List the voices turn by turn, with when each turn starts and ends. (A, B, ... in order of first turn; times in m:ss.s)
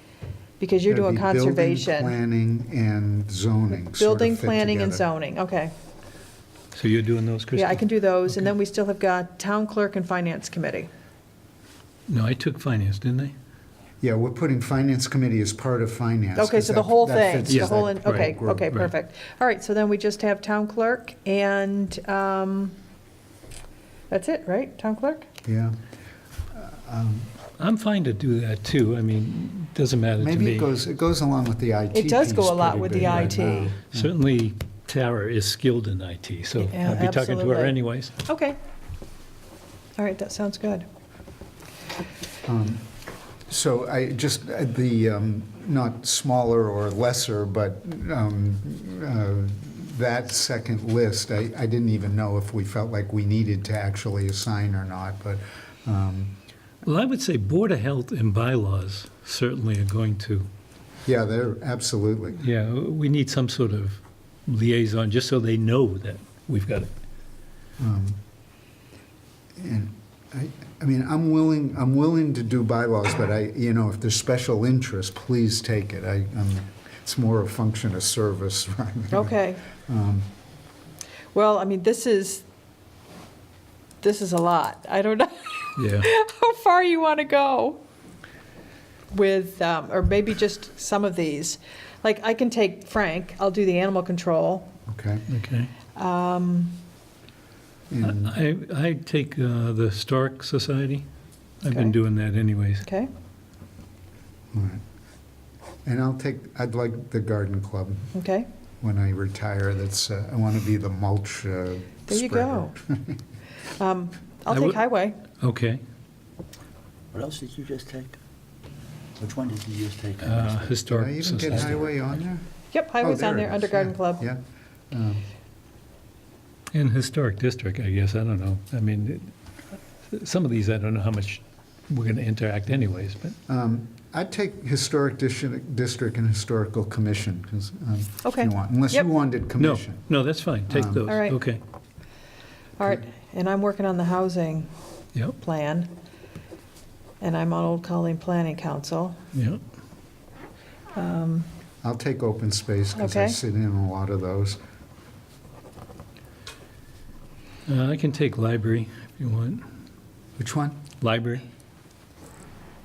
0:00.6-0:02.2 A
0:00.9-0:05.0 B
0:03.7-0:05.7 A
0:06.7-0:08.5 C
0:07.6-0:10.9 A
0:12.1-0:13.3 C
0:14.0-0:18.7 B
0:16.4-0:22.8 A
0:17.5-0:18.9 C
0:24.1-0:25.3 A
0:25.4-0:25.8 B
0:26.5-0:27.3 B
0:27.6-0:30.7 C
0:30.2-0:33.9 B
0:31.9-0:33.8 A
0:33.9-0:38.2 C
0:36.6-0:38.6 A
0:40.0-0:40.9 A
0:42.4-0:42.9 B
0:43.5-0:56.4 B
0:56.8-1:00.5 C
1:01.1-1:02.4 B
1:02.4-1:06.9 C
1:07.8-1:08.2 B
1:09.6-1:20.3 B
1:19.1-1:19.6 A
1:21.3-1:22.4 A
1:24.0-1:27.8 A
1:25.8-1:26.1 C
1:29.1-1:34.7 A
1:34.9-1:35.2 B
1:35.3-1:35.7 C
1:36.0-1:36.8 A
1:37.9-1:38.4 B
1:38.0-1:41.0 C
1:41.6-1:42.8 C
1:41.6-1:42.0 A
1:42.8-1:43.1 A
1:44.5-1:44.8 B
1:45.8-1:48.1 B
1:48.1-1:48.5 A
1:48.8-1:53.2 B
1:52.1-1:52.7 A
1:53.8-1:55.2 A
1:54.5-1:54.8 C
1:55.4-1:55.8 C
1:57.1-1:58.2 D
1:59.2-2:00.8 D
2:00.2-2:01.8 C
2:00.9-2:02.4 B
2:01.6-2:01.9 D
2:02.7-2:04.3 A
2:03.0-2:05.2 B
2:06.7-2:09.3 C
2:10.1-2:13.4 C
2:13.5-2:20.1 B
2:18.2-2:19.1 A
2:19.6-2:21.6 C
2:20.7-2:21.1 B
2:21.1-2:21.4 A
2:22.8-2:24.7 A
2:25.4-2:25.9 A
2:27.2-2:29.2 A
2:29.3-2:29.6 C
2:31.0-2:31.5 A
2:31.8-2:34.6 B
2:33.0-2:33.4 A
2:37.7-2:39.7 C
2:40.4-2:40.8 B
2:41.0-2:41.4 C